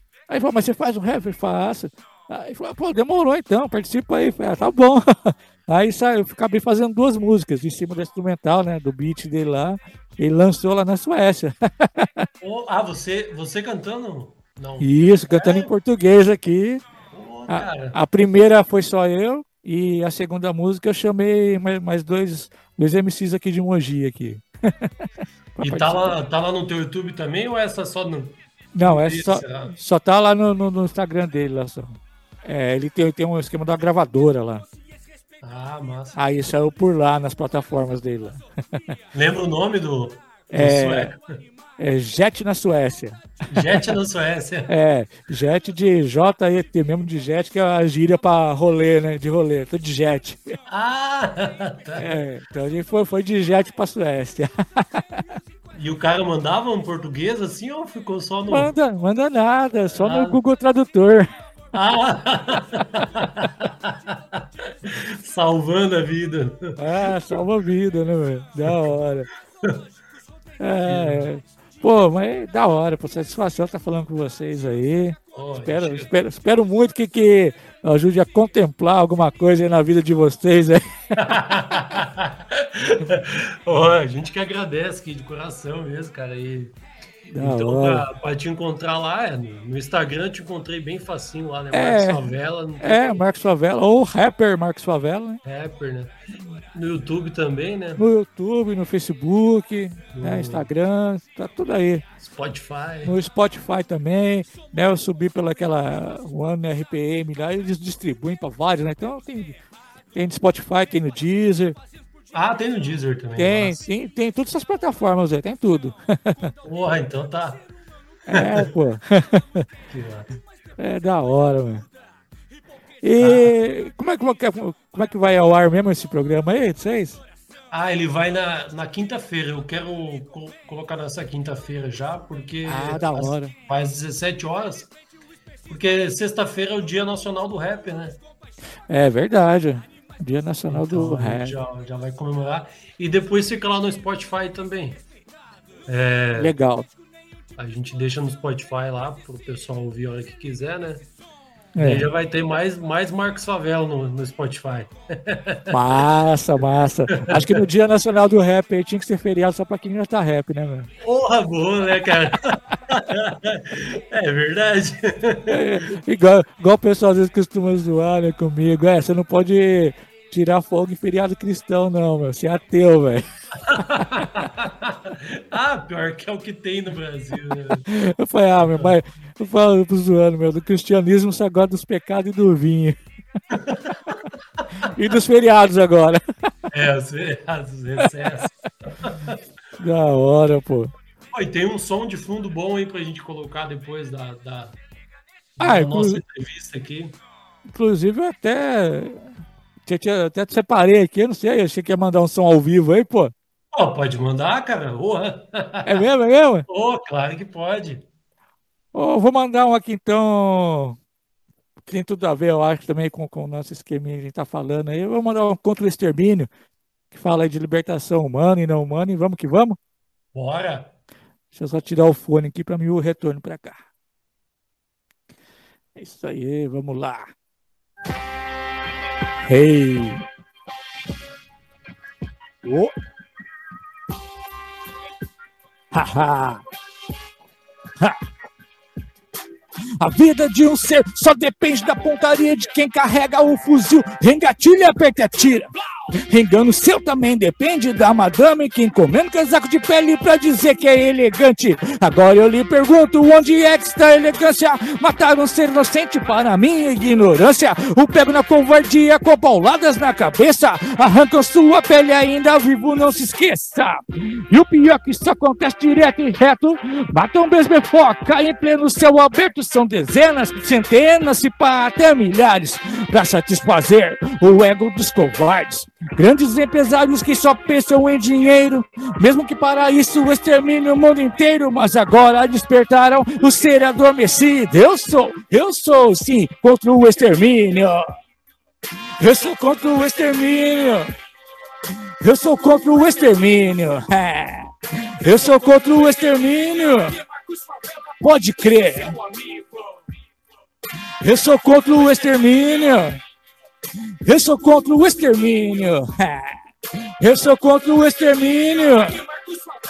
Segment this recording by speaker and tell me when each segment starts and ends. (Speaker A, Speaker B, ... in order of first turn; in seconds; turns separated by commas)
Speaker A: 0.3-12.3, Speaker B: 12.4-15.7, Speaker A: 14.8-16.8, Speaker B: 17.1-18.0, Speaker A: 17.5-26.2, Speaker B: 25.6-29.7, Speaker A: 28.7-34.6, Speaker B: 35.4-36.2, Speaker A: 36.1-39.0, Speaker B: 39.1-41.2, Speaker A: 40.5-41.1, Speaker A: 41.8-43.9, Speaker B: 43.5-44.7, Speaker A: 44.7-50.5, Speaker B: 50.7-52.1, Speaker A: 52.0-55.2, Speaker B: 55.7-58.7, Speaker A: 58.5-61.3, Speaker B: 60.0-60.4, Speaker B: 61.7-67.4, Speaker A: 66.8-69.3, Speaker B: 68.7-68.9, Speaker A: 70.6-82.0, Speaker B: 70.8-71.3, Speaker B: 75.3-76.1, Speaker B: 81.2-86.8, Speaker A: 87.3-88.1, Speaker B: 87.4-93.2, Speaker A: 91.7-92.3, Speaker A: 92.8-95.4, Speaker B: 95.4-96.2, Speaker B: 96.7-98.0, Speaker A: 98.0-102.0, Speaker B: 100.1-100.7, Speaker B: 102.2-103.2, Speaker A: 103.0-109.6, Speaker A: 110.1-111.8, Speaker B: 112.3-113.8, Speaker A: 113.4-116.5, Speaker B: 116.6-117.7, Speaker A: 118.3-119.7, Speaker B: 118.3-118.7, Speaker B: 119.9-120.3, Speaker A: 120.8-121.9, Speaker A: 123.0-127.2, Speaker B: 123.2-123.5, Speaker B: 127.7-134.9, Speaker A: 132.7-133.5, Speaker B: 135.7-138.2, Speaker A: 138.9-141.6, Speaker B: 140.7-145.0, Speaker B: 145.9-146.5, Speaker A: 146.4-146.9, Speaker B: 147.6-151.1, Speaker A: 151.8-152.1, Speaker B: 151.8-155.7, Speaker A: 155.7-160.9, Speaker B: 157.1-157.7, Speaker B: 161.0-165.9, Speaker A: 165.5-174.3, Speaker B: 173.6-177.9, Speaker A: 177.9-183.0, Speaker B: 178.6-179.0, Speaker B: 183.5-184.9, Speaker A: 184.9-186.7, Speaker B: 186.7-189.4, Speaker A: 189.8-190.9, Speaker B: 191.3-194.8, Speaker B: 195.6-197.2, Speaker A: 195.6-196.2, Speaker A: 197.7-199.3, Speaker A: 199.9-203.3, Speaker B: 203.7-206.1, Speaker A: 205.8-206.7, Speaker B: 206.7-208.1, Speaker A: 208.9-211.0, Speaker A: 211.8-216.5, Speaker A: 217.1-219.8, Speaker B: 220.3-220.9, Speaker A: 221.5-223.8, Speaker A: 226.0-227.3, Speaker A: 229.4-230.2, Speaker A: 232.6-232.9, Speaker A: 235.9-236.6, Speaker A: 238.0-238.2, Speaker A: 240.0-288.0, Speaker A: 289.2-291.1, Speaker A: 292.2-297.2, Speaker A: 298.2-299.8, Speaker A: 301.2-303.2, Speaker A: 304.2-309.3